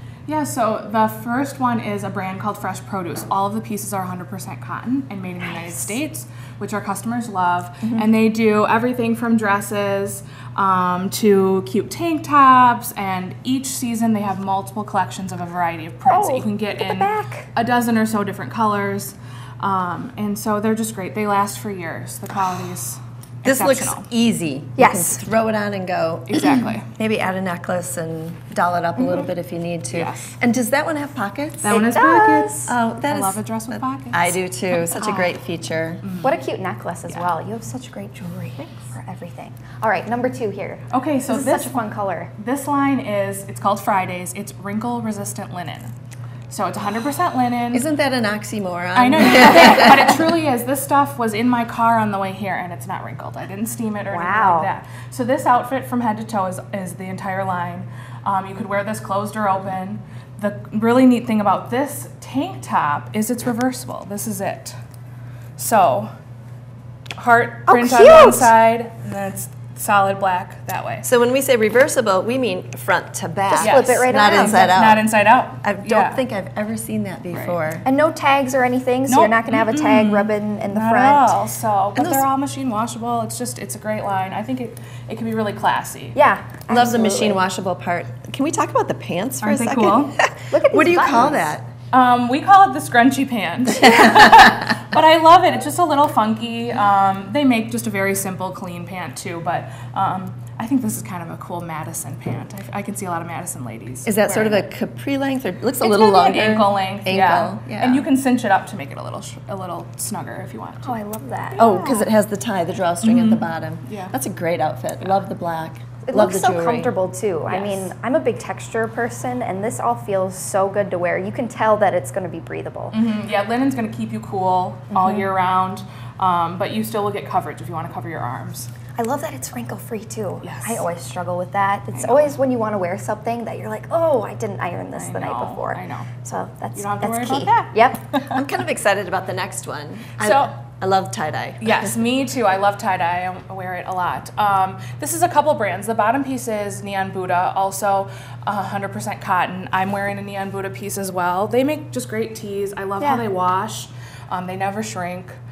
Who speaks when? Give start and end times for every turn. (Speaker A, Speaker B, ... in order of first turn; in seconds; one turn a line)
Speaker A: 0.3-24.1
Speaker B: 5.4-6.0
Speaker B: 16.1-17.5
Speaker C: 23.4-31.8
Speaker B: 24.8-25.2
Speaker A: 26.3-26.9
Speaker B: 29.0-29.3
Speaker A: 29.9-30.3
Speaker A: 31.6-35.3
Speaker B: 31.7-32.7
Speaker C: 32.7-36.0
Speaker A: 36.0-36.4
Speaker B: 36.2-42.3
Speaker A: 40.9-41.8
Speaker A: 42.4-45.9
Speaker A: 46.5-47.9
Speaker C: 47.7-50.2
Speaker A: 48.9-64.7
Speaker B: 54.1-54.7
Speaker A: 65.6-66.1
Speaker A: 67.2-71.0
Speaker B: 67.7-68.5
Speaker C: 71.0-77.8
Speaker B: 73.5-74.7
Speaker A: 73.5-76.2
Speaker A: 77.3-77.6
Speaker B: 77.8-81.4
Speaker A: 79.1-86.2
Speaker C: 82.0-82.2
Speaker B: 86.1-87.4
Speaker C: 86.7-91.7
Speaker A: 89.4-90.1
Speaker B: 90.5-91.5
Speaker A: 91.9-104.6
Speaker C: 104.0-108.1
Speaker A: 105.8-111.0
Speaker B: 110.8-111.6
Speaker A: 111.5-112.1
Speaker C: 111.6-116.9
Speaker A: 113.0-114.1
Speaker B: 116.0-123.0
Speaker A: 117.5-117.9
Speaker A: 122.9-128.7
Speaker B: 124.9-125.2
Speaker B: 129.0-138.0
Speaker A: 130.4-130.8
Speaker A: 131.9-132.3
Speaker A: 134.9-136.1
Speaker A: 136.8-138.4
Speaker C: 138.3-141.9
Speaker A: 140.2-140.5
Speaker A: 141.6-155.3